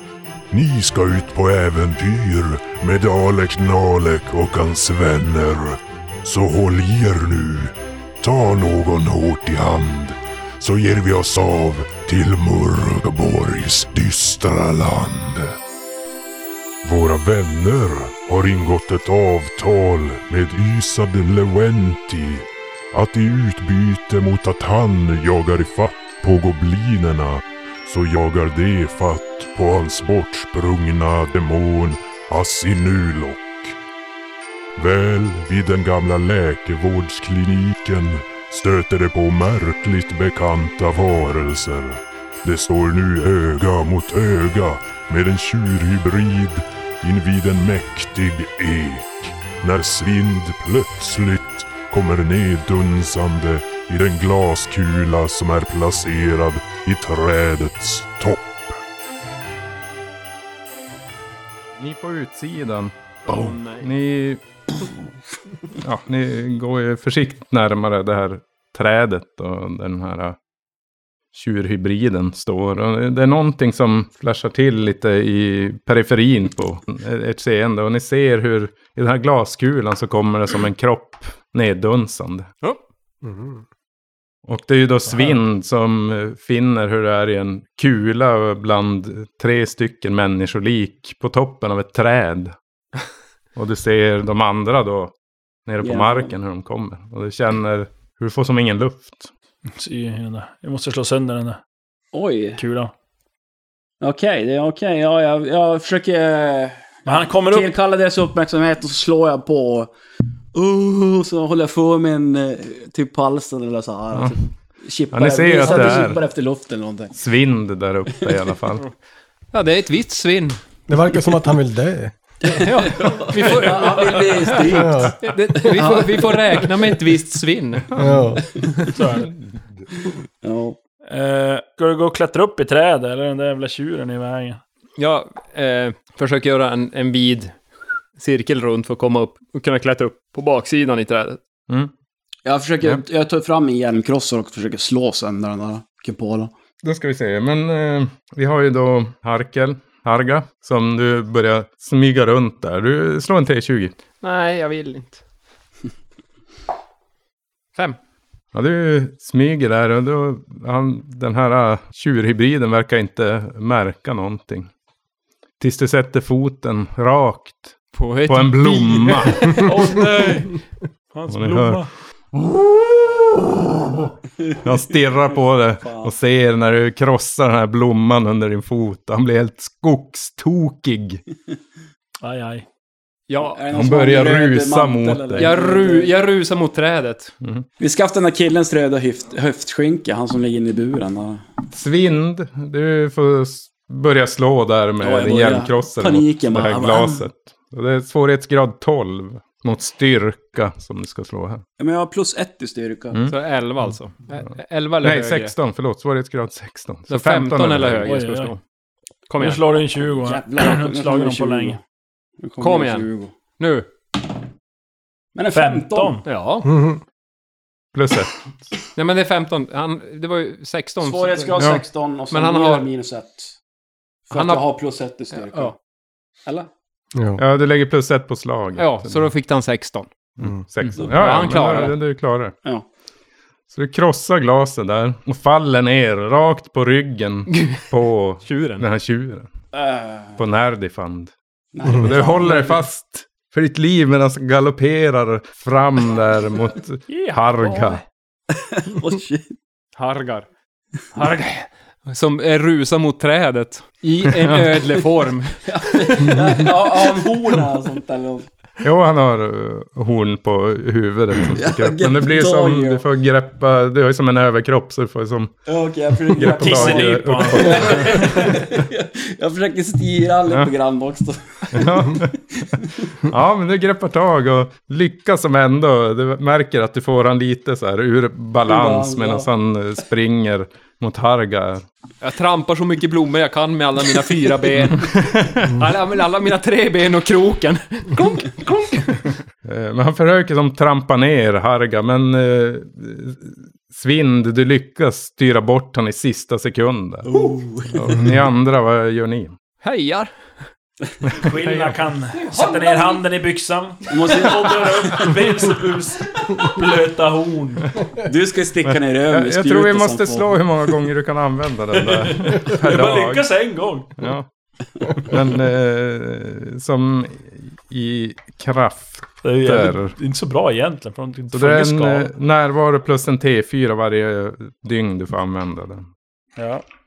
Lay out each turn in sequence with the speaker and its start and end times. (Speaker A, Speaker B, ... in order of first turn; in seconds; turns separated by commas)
Speaker A: 0.5-15.6, Speaker A: 16.8-33.8, Speaker A: 34.8-58.8, Speaker B: 61.8-64.4, Speaker C: 63.3-63.9, Speaker B: 65.8-70.4, Speaker B: 71.3-82.5, Speaker D: 83.2-83.6, Speaker B: 84.5-92.5, Speaker E: 85.0-85.4, Speaker B: 93.5-95.1, Speaker B: 95.7-99.3, Speaker F: 95.8-96.3, Speaker E: 99.8-101.6, Speaker F: 102.1-102.6, Speaker E: 102.6-102.9, Speaker F: 104.0-109.9, Speaker E: 107.0-107.7, Speaker F: 110.5-117.1, Speaker B: 115.1-116.2, Speaker C: 115.6-115.9, Speaker B: 117.1-118.8, Speaker C: 119.5-120.6, Speaker D: 120.9-122.1, Speaker F: 122.4-126.8, Speaker C: 122.5-127.9, Speaker D: 124.7-125.2, Speaker B: 127.9-128.3, Speaker D: 128.0-128.5, Speaker E: 128.9-129.3, Speaker F: 130.4-130.8, Speaker E: 131.1-134.6, Speaker C: 135.0-137.5, Speaker C: 138.2-141.4, Speaker F: 142.4-146.5, Speaker B: 146.8-153.9, Speaker C: 154.2-155.2, Speaker B: 158.5-164.7, Speaker B: 165.6-169.7, Speaker C: 167.9-169.8, Speaker E: 169.5-170.6, Speaker E: 171.1-171.9, Speaker B: 171.3-174.1, Speaker B: 174.6-181.2, Speaker F: 175.8-176.1, Speaker E: 182.2-182.7, Speaker C: 183.3-183.6, Speaker F: 183.4-186.1, Speaker B: 183.7-185.5, Speaker C: 185.4-187.3, Speaker F: 187.8-191.4, Speaker B: 191.7-201.6, Speaker F: 195.0-197.3, Speaker F: 201.8-203.2, Speaker C: 203.3-205.5, Speaker B: 205.0-208.2, Speaker C: 207.1-208.6, Speaker E: 208.0-208.5, Speaker C: 209.3-209.7, Speaker E: 209.4-211.8, Speaker F: 210.2-211.8, Speaker F: 212.4-213.3, Speaker C: 212.6-213.1, Speaker C: 213.6-213.9, Speaker F: 215.3-216.2, Speaker E: 215.5-216.2, Speaker C: 216.2-216.7, Speaker D: 216.6-217.0, Speaker B: 217.9-218.5, Speaker C: 218.9-221.7, Speaker F: 221.0-223.6, Speaker C: 222.3-222.9, Speaker F: 224.3-225.8, Speaker C: 224.3-224.6, Speaker D: 227.1-227.4, Speaker B: 227.4-229.3, Speaker C: 228.8-230.1, Speaker B: 230.4-232.5, Speaker C: 230.8-232.0, Speaker F: 231.0-231.8, Speaker B: 233.7-239.5, Speaker C: 237.5-237.8, Speaker C: 238.4-238.8, Speaker F: 239.7-240.4, Speaker B: 240.4-241.3, Speaker F: 241.7-242.8, Speaker B: 241.9-248.0, Speaker C: 247.1-248.0, Speaker F: 248.6-249.5, Speaker C: 250.0-250.5, Speaker C: 251.1-256.7, Speaker B: 254.3-254.8, Speaker F: 255.7-258.5, Speaker B: 258.8-265.6, Speaker F: 261.5-263.0, Speaker F: 265.7-272.9, Speaker B: 266.3-268.5, Speaker E: 266.5-268.5, Speaker B: 271.7-272.4, Speaker B: 273.2-281.8, Speaker F: 278.6-279.5, Speaker C: 282.2-289.3, Speaker B: 284.9-285.8, Speaker B: 289.6-297.3, Speaker F: 297.2-298.0, Speaker B: 297.9-299.6, Speaker C: 299.8-300.3, Speaker B: 301.3-302.0, Speaker E: 301.4-307.9, Speaker C: 302.3-303.2, Speaker F: 304.1-305.3, Speaker F: 308.2-310.6, Speaker B: 308.8-313.5, Speaker E: 311.9-314.3, Speaker B: 314.2-314.5, Speaker B: 315.2-320.1, Speaker E: 319.4-322.3, Speaker B: 321.5-326.1, Speaker E: 326.6-326.8